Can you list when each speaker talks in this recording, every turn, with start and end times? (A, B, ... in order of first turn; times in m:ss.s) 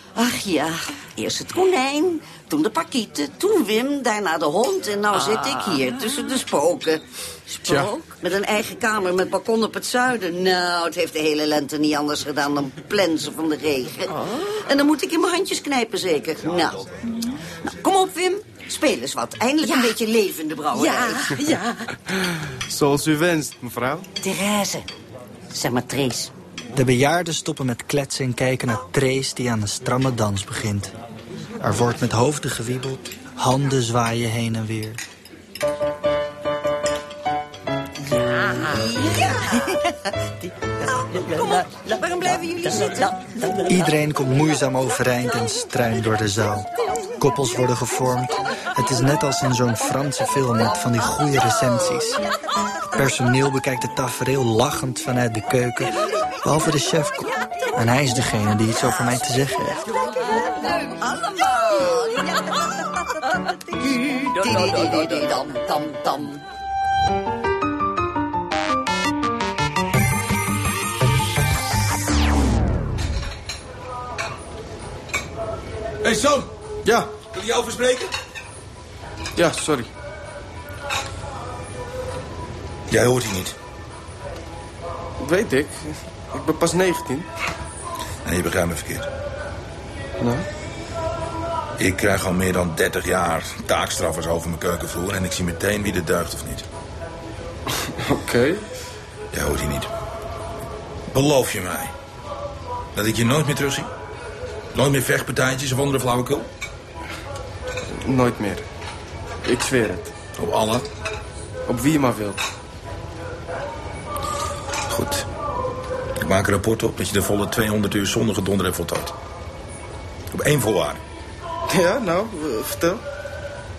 0:00.2-0:07.0 A
0:05.1-0:06.0 B
0:07.6-0:16.9 A
0:07.6-0:08.1 B
0:14.1-0:14.6 B
0:17.6-0:21.3 A
0:19.6-0:20.0 B
0:20.7-0:21.9 B
0:22.7-0:24.1 C
0:24.2-0:24.8 A
0:25.5-0:26.3 A
0:26.8-0:30.9 D
0:31.6-0:35.0 D
0:38.2-0:39.8 B
0:38.6-0:39.7 A
0:40.9-0:43.9 B
0:41.0-0:43.1 A
0:43.7-0:52.2 D
0:53.0-0:59.8 D
1:00.7-1:02.5 A
1:03.8-1:06.4 A
1:04.0-1:05.4 B
1:16.0-1:16.5 E
1:16.8-1:17.1 C
1:17.3-1:18.1 E
1:19.4-1:19.9 C
1:22.9-1:23.6 E
1:25.2-1:27.3 C
1:28.2-1:29.1 E
1:30.2-1:30.5 C
1:31.8-1:36.6 E
1:38.0-1:38.6 C
1:39.3-1:39.9 E
1:41.1-1:41.9 E
1:43.0-1:43.9 E
1:44.8-1:46.5 E
1:48.0-1:48.6 C
1:49.4-1:50.1 C
1:50.4-1:50.8 E
1:51.7-1:52.4 C
1:54.9-1:55.2 E
1:56.2-1:59.1 E
2:00.3-2:01.0 E
2:01.7-2:03.0 C